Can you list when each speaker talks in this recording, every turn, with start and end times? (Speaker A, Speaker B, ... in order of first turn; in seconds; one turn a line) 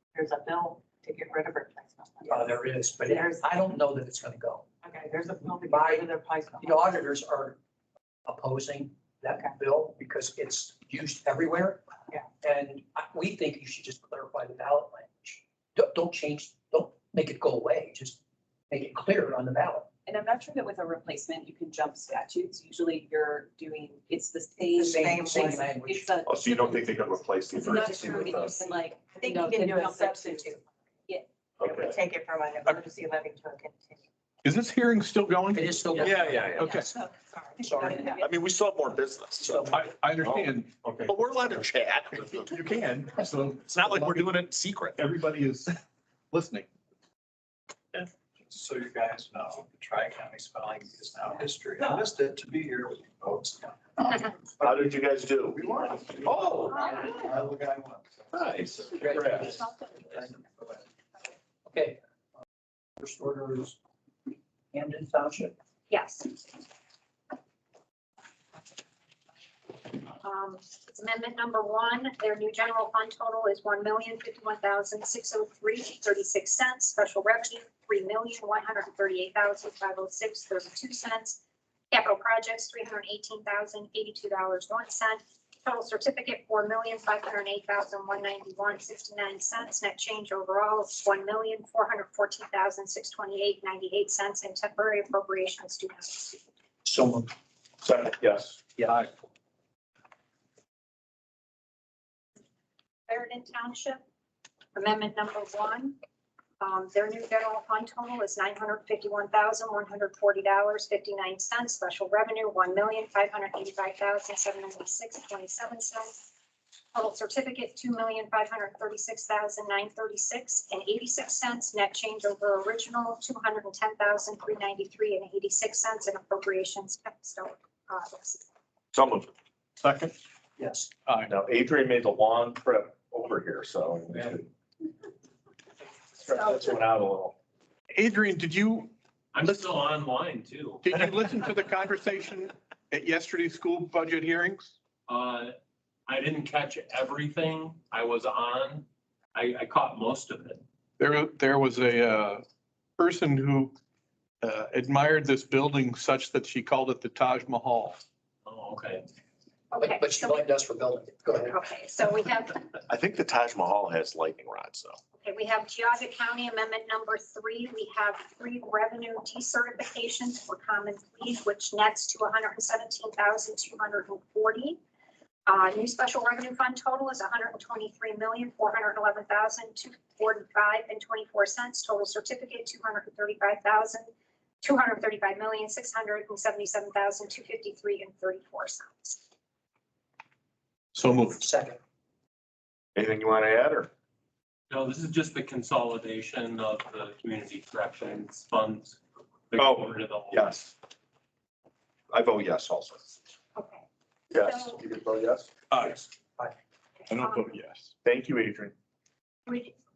Speaker A: 0.1-3.5
Speaker B: 2.3-4.7
Speaker A: 4.8-7.0
Speaker B: 5.6-6.1
Speaker B: 6.6-7.6
Speaker B: 8.3-11.9
Speaker B: 12.4-19.9
Speaker C: 20.1-31.3
Speaker B: 24.7-26.1
Speaker A: 24.9-25.5
Speaker D: 26.2-28.7
Speaker A: 29.2-30.1
Speaker D: 31.6-32.0
Speaker A: 31.6-34.1
Speaker E: 34.4-36.9
Speaker B: 35.5-36.9
Speaker D: 36.0-36.7
Speaker A: 36.9-38.1
Speaker B: 37.6-38.2
Speaker C: 38.0-38.3
Speaker D: 38.1-45.0
Speaker B: 39.4-39.9
Speaker E: 39.7-41.2
Speaker E: 43.3-44.2
Speaker E: 44.9-45.8
Speaker E: 46.3-46.7
Speaker F: 47.9-58.6
Speaker D: 54.6-56.0
Speaker B: 56.3-56.9
Speaker D: 58.3-59.6
Speaker B: 59.0-60.4
Speaker B: 61.7-62.0
Speaker B: 63.0-63.8
Speaker B: 64.7-65.6
Speaker G: 65.9-66.4
Speaker G: 70.2-96.4
Speaker B: 96.8-97.3
Speaker D: 97.8-98.7
Speaker B: 98.8-99.1
Speaker G: 103.1-104.0
Speaker G: 104.8-106.0
Speaker G: 106.6-116.3
Speaker G: 116.9-128.4
Speaker D: 128.9-129.3
Speaker E: 129.8-130.1
Speaker B: 130.6-130.9
Speaker E: 131.1-131.3
Speaker D: 131.3-134.5
Speaker D: 136.2-137.4
Speaker G: 136.5-136.7
Speaker E: 137.9-139.7
Speaker H: 139.3-141.0
Speaker E: 140.8-144.8
Speaker H: 145.1-145.5
Speaker H: 146.1-150.6
Speaker E: 151.0-152.4
Speaker E: 153.0-153.8
Speaker E: 154.4-158.0
Speaker H: 158.5-159.1
Speaker G: 159.7-160.4
Speaker B: 159.8-161.6
Speaker G: 161.4-162.7
Speaker D: 162.9-165.0
Speaker G: 165.2-174.8
Speaker G: 175.5-184.1
Speaker G: 184.6-189.2
Speaker E: 190.9-191.5
Speaker B: 191.4-191.8
Speaker D: 192.9-193.9
Speaker H: 194.7-200.6
Speaker D: 199.6-200.7
Speaker D: 202.1-203.0
Speaker G: 203.6-203.8
Speaker D: 204.3-205.5
Speaker G: 204.4-204.8
Speaker E: 205.7-206.0
Speaker G: 207.0-207.6
Speaker E: 207.1-207.9
Speaker D: 208.0-208.7
Speaker G: 209.5-209.7